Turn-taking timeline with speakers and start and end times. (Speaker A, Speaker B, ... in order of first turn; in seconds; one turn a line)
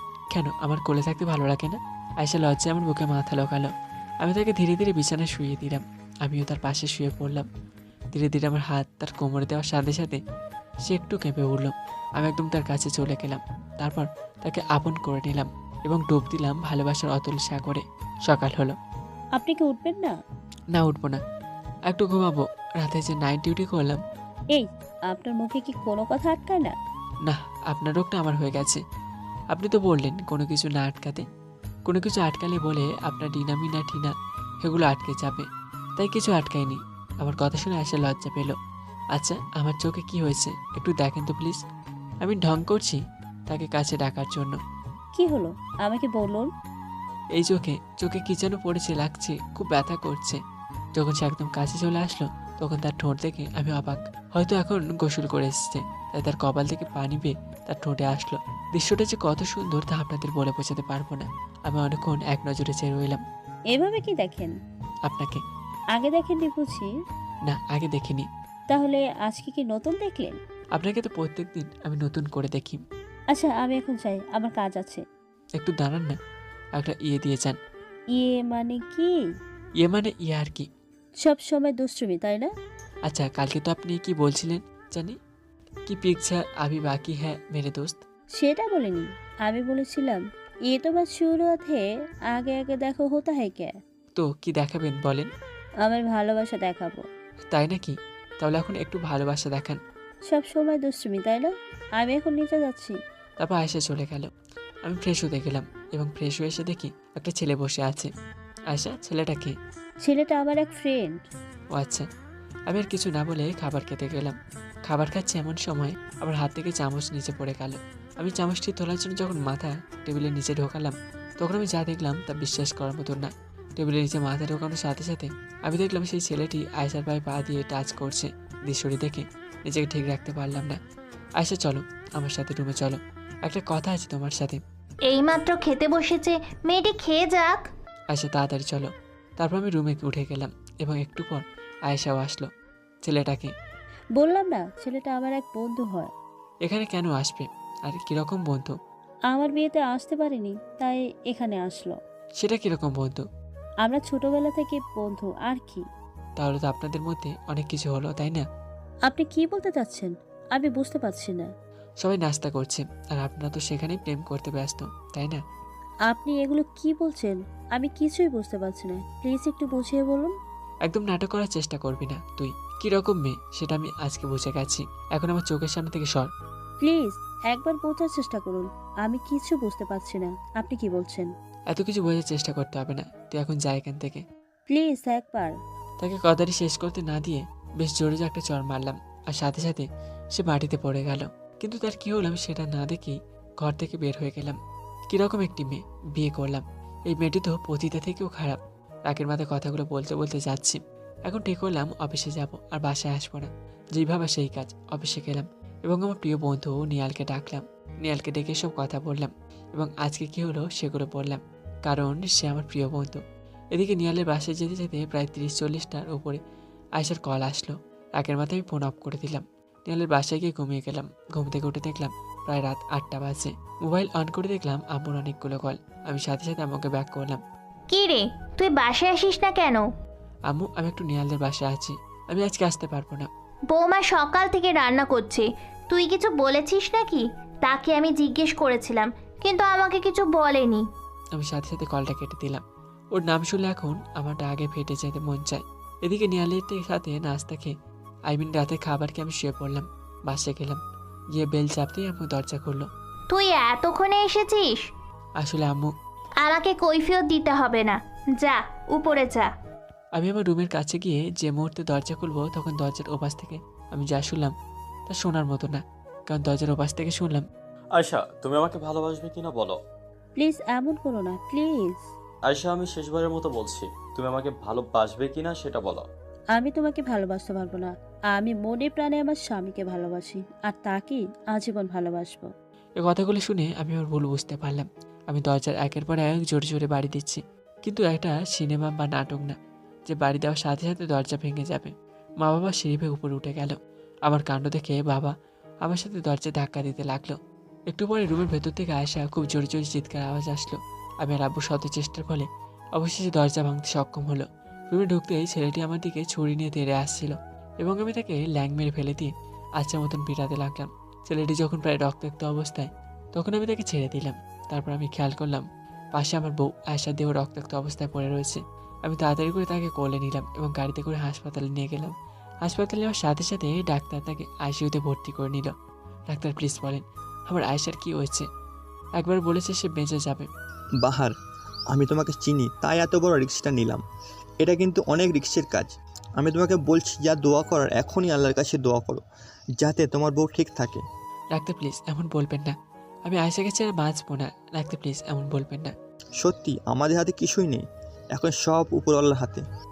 Speaker A: 0.3-7.5
Speaker A: 8.1-10.2
Speaker A: 10.8-18.8
Speaker B: 19.4-20.1
Speaker A: 20.7-21.2
Speaker A: 21.9-24.0
Speaker B: 24.5-26.7
Speaker A: 27.2-28.8
Speaker A: 29.5-31.2
Speaker A: 31.9-35.5
Speaker A: 36.0-38.6
Speaker A: 39.1-41.6
Speaker A: 42.2-44.6
Speaker B: 45.1-46.5
Speaker A: 47.3-50.4
Speaker A: 50.9-63.2
Speaker B: 63.7-64.5
Speaker A: 65.0-65.4
Speaker B: 66.0-66.9
Speaker A: 67.5-68.3
Speaker B: 68.7-70.4
Speaker A: 70.7-72.8
Speaker B: 73.3-75.0
Speaker A: 75.6-76.2
Speaker A: 76.8-77.6
Speaker B: 78.1-79.1
Speaker A: 79.8-80.7
Speaker B: 81.2-82.5
Speaker A: 83.0-85.2
Speaker A: 85.9-88.0
Speaker B: 88.4-93.7
Speaker A: 94.1-95.3
Speaker B: 95.8-97.0
Speaker A: 97.5-99.8
Speaker B: 100.3-103.0
Speaker A: 103.4-104.3
Speaker A: 104.8-108.1
Speaker A: 108.7-109.5
Speaker B: 110.0-111.2
Speaker A: 111.7-112.0
Speaker A: 112.7-130.8
Speaker A: 131.4-134.6
Speaker C: 135.0-137.6
Speaker A: 138.1-142.5
Speaker A: 143.0-143.5
Speaker B: 144.2-146.1
Speaker A: 146.6-148.7
Speaker B: 149.3-151.9
Speaker A: 152.4-153.2
Speaker B: 153.8-155.8
Speaker A: 156.4-158.4
Speaker B: 159.1-161.5
Speaker A: 162.0-165.4
Speaker B: 166.1-170.3
Speaker A: 170.8-176.3
Speaker B: 176.8-181.3
Speaker A: 181.7-184.2
Speaker B: 184.7-185.5
Speaker A: 186.0-194.6
Speaker A: 195.1-213.2
Speaker A: 213.7-216.4
Speaker A: 216.9-227.4
Speaker C: 227.9-229.8
Speaker A: 230.5-233.3
Speaker C: 233.7-240.8
Speaker A: 241.3-242.6
Speaker A: 243.1-247.7
Speaker A: 248.3-250.8
Speaker A: 251.3-252.9
Speaker C: 253.3-254.8
Speaker A: 255.4-255.9
Speaker C: 256.4-259.5
Speaker A: 260.1-264.5
Speaker A: 265.1-267.4
Speaker D: 267.9-269.8
Speaker B: 270.4-272.0
Speaker D: 272.4-276.1
Speaker B: 276.5-282.5
Speaker A: 283.0-289.5
Speaker A: 290.1-297.4
Speaker A: 297.9-325.7
Speaker A: 326.3-328.5
Speaker A: 329.2-330.5
Speaker E: 331.0-331.3
Speaker E: 331.9-334.0
Speaker E: 334.6-339.2
Speaker E: 339.8-341.0
Speaker A: 341.5-342.7
Speaker A: 343.2-345.9
Speaker E: 346.4-349.6